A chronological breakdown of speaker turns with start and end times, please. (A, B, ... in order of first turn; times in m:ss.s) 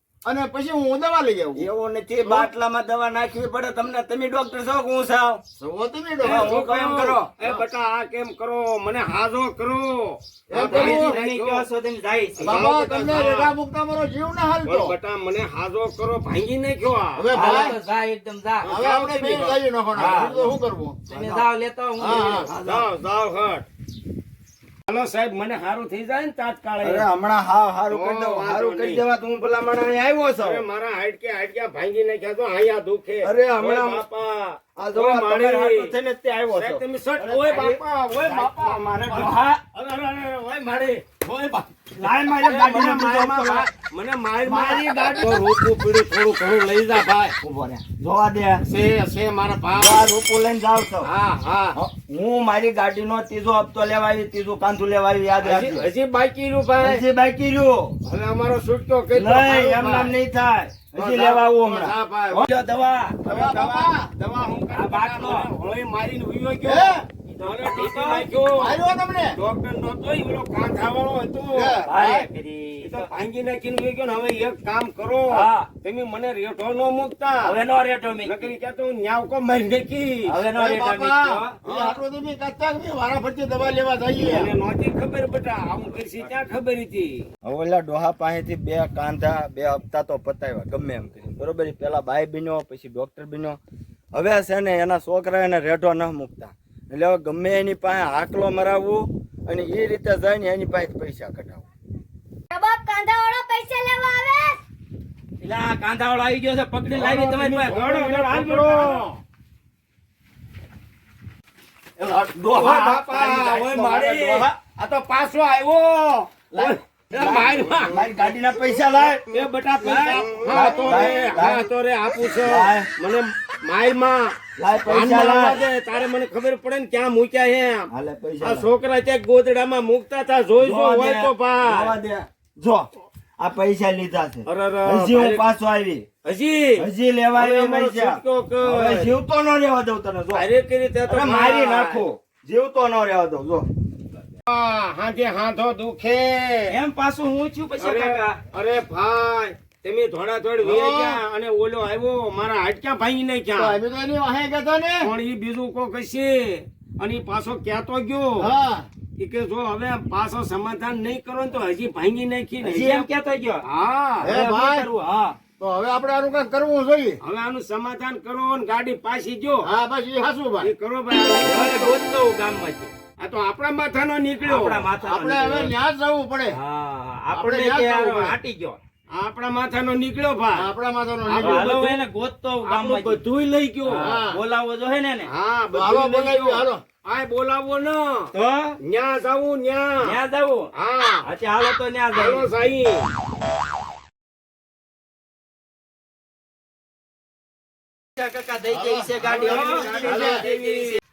0:00.2-0:01.6 A
0:01.5-0:05.4 B
0:05.6-0:06.5 A
0:06.2-0:07.3 B
0:06.2-0:11.7 C
0:10.5-0:11.2 A
0:10.5-0:12.7 D
0:12.4-0:13.5 C
0:12.4-0:14.9 A
0:14.6-0:17.6 C
0:17.2-0:17.8 A
0:17.3-0:18.7 D
0:18.6-0:20.3 C
0:18.6-0:21.0 A
0:19.9-0:20.5 B
0:19.9-0:20.4 D
0:21.1-0:22.4 D
0:21.1-0:21.5 B
0:22.0-0:22.5 A
0:22.0-0:22.9 B
0:22.2-0:23.6 C
0:24.9-0:27.1 C
0:26.8-0:30.6 B
0:27.9-0:29.0 C
0:30.4-0:35.9 C
0:33.2-0:34.0 B
0:34.8-0:37.7 B
0:36.5-0:47.4 C
0:37.5-0:37.8 D
0:38.2-0:39.4 B
0:39.1-0:39.6 D
0:42.0-0:43.7 B
0:44.4-0:45.4 B
0:47.4-0:48.6 B
0:48.6-0:50.1 C
0:49.7-0:51.1 B
0:51.0-0:51.8 C
0:51.7-0:55.8 B
0:55.4-0:57.0 C
0:56.8-0:58.0 B
0:58.0-1:00.2 C
0:59.1-1:01.9 B
1:00.9-1:02.5 C
1:01.6-1:01.9 A
1:02.3-1:03.2 D
1:03.2-1:08.8 C
1:03.2-1:04.1 A
1:04.7-1:05.5 D
1:06.6-1:07.0 A
1:07.3-1:08.3 D
1:08.5-1:09.4 A
1:09.3-1:12.0 C
1:11.5-1:12.2 A
1:11.9-1:13.1 D
1:12.8-1:17.6 C
1:15.3-1:15.7 D
1:17.4-1:18.5 D
1:18.2-1:20.4 C
1:20.3-1:21.5 D
1:20.5-1:24.5 A
1:21.6-1:22.0 C
1:24.2-1:27.2 C
1:27.4-1:33.6 B
1:34.1-1:41.6 B
1:42.5-1:44.6 E
1:45.4-1:49.0 D
1:46.9-1:49.2 C
1:52.0-1:53.1 B
1:52.4-1:58.1 C
1:53.0-1:54.5 A
1:56.5-1:59.2 B
1:59.3-2:04.3 C
1:59.8-2:01.1 A
2:00.4-2:01.7 B
2:02.4-2:02.9 B
2:04.6-2:05.6 B
2:04.8-2:07.9 C
2:07.9-2:08.7 B
2:08.4-2:12.0 C
2:10.6-2:16.1 B
2:14.4-2:15.4 C
2:16.2-2:19.1 C
2:16.8-2:20.4 B
2:20.3-2:22.0 C
2:21.1-2:23.7 B
2:24.5-2:26.8 C
2:26.7-2:28.4 D
2:27.8-2:33.8 C
2:30.6-2:31.2 A
2:33.6-2:35.1 A
2:35.0-2:38.5 C
2:38.4-2:38.9 A
2:39.2-2:43.1 C
2:42.6-2:43.6 D
2:43.7-2:44.3 C
2:44.2-2:44.9 A
2:44.2-2:45.4 D
2:45.6-2:47.2 A
2:47.2-2:49.7 C
2:49.6-2:50.7 A
2:50.6-2:52.0 C
2:51.4-2:52.9 D
2:53.2-2:54.9 C
2:54.4-2:55.7 D
2:55.0-2:56.6 A
2:56.5-2:58.8 D
2:57.3-2:58.4 A
2:59.2-3:00.7 C
3:00.5-3:01.7 A
3:01.3-3:02.0 C
3:01.4-3:03.2 D
3:02.6-3:04.0 C
3:03.9-3:04.4 A
3:04.0-3:05.3 D
3:05.3-3:08.3 C
3:05.7-3:06.8 A
3:08.3-3:08.8 D
3:08.8-3:10.1 C
3:10.0-3:10.7 D
3:10.7-3:11.3 C
3:11.2-3:12.5 D
3:12.1-3:13.1 C
3:18.2-3:21.0 D
3:18.7-3:20.4 A
3:19.2-3:21.0 C